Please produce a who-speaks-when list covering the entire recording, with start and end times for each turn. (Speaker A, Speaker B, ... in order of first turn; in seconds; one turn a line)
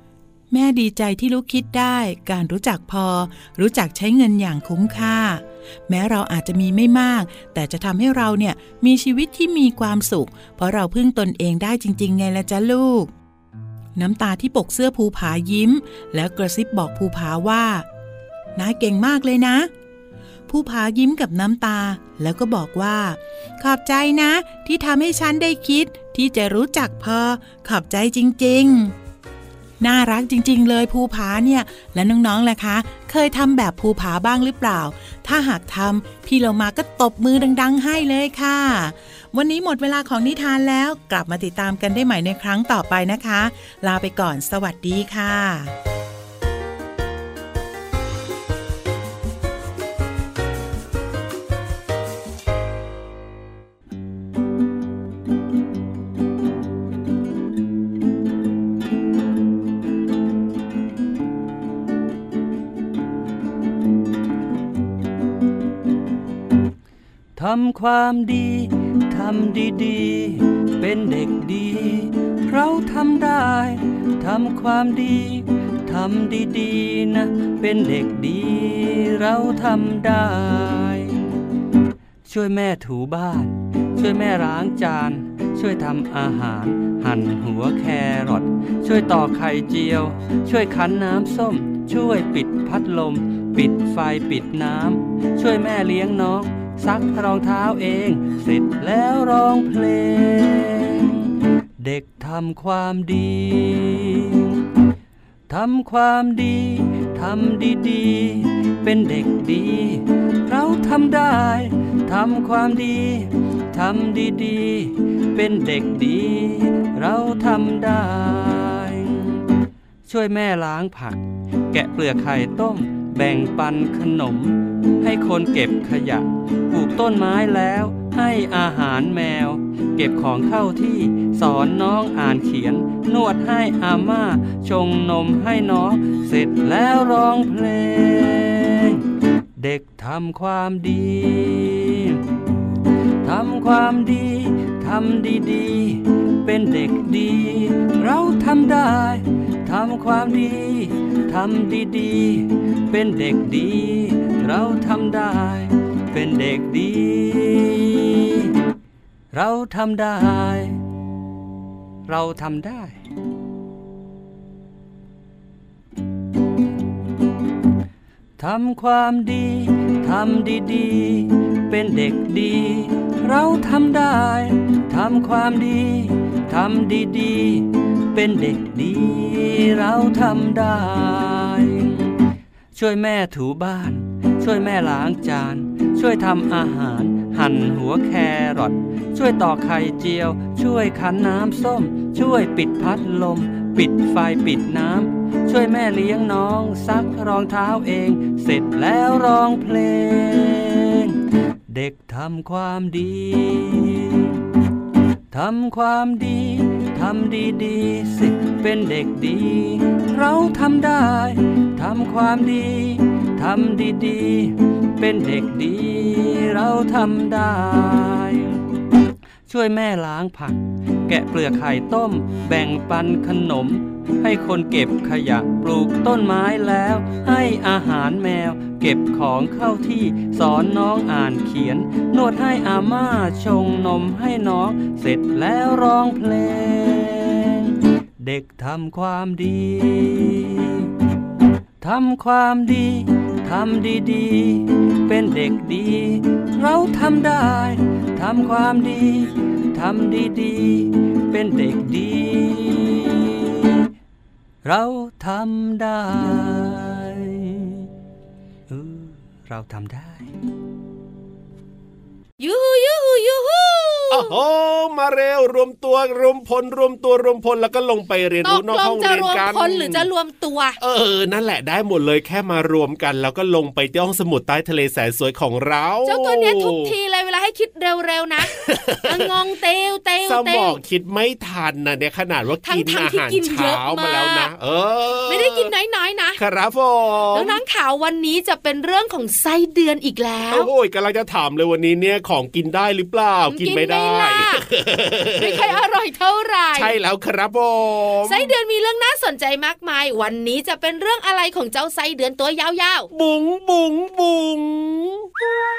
Speaker A: 0.5-13.1
Speaker A: 13.9-17.9
Speaker A: 18.6-19.7
Speaker A: 20.5-28.9
Speaker A: 29.8-45.7
Speaker B: 67.3-81.2
Speaker B: 82.3-101.2
Speaker B: 101.8-104.5
Speaker B: 105.5-119.4
Speaker B: 120.1-139.0
Speaker B: 139.6-142.2
Speaker B: 143.2-158.5
Speaker B: 159.3-160.8
Speaker B: 162.1-163.0
Speaker B: 168.4-182.1
Speaker B: 182.7-201.1
Speaker B: 201.7-204.3
Speaker B: 205.3-218.6
Speaker B: 219.5-240.9
Speaker B: 241.8-253.8
Speaker B: 254.6-257.8
Speaker B: 258.7-260.3
Speaker C: 262.4-264.4
Speaker D: 264.1-270.1
Speaker C: 268.4-270.8
Speaker D: 270.8-276.9
Speaker C: 276.1-278.5
Speaker D: 278.5-279.3
Speaker C: 279.1-280.8
Speaker D: 280.2-285.7
Speaker C: 282.6-284.5
Speaker C: 285.3-286.4
Speaker D: 286.4-287.6
Speaker C: 287.3-290.7
Speaker D: 290.5-295.8
Speaker C: 293.5-294.6
Speaker C: 295.4-296.9
Speaker D: 296.7-298.5
Speaker C: 298.2-303.1
Speaker D: 303.1-305.2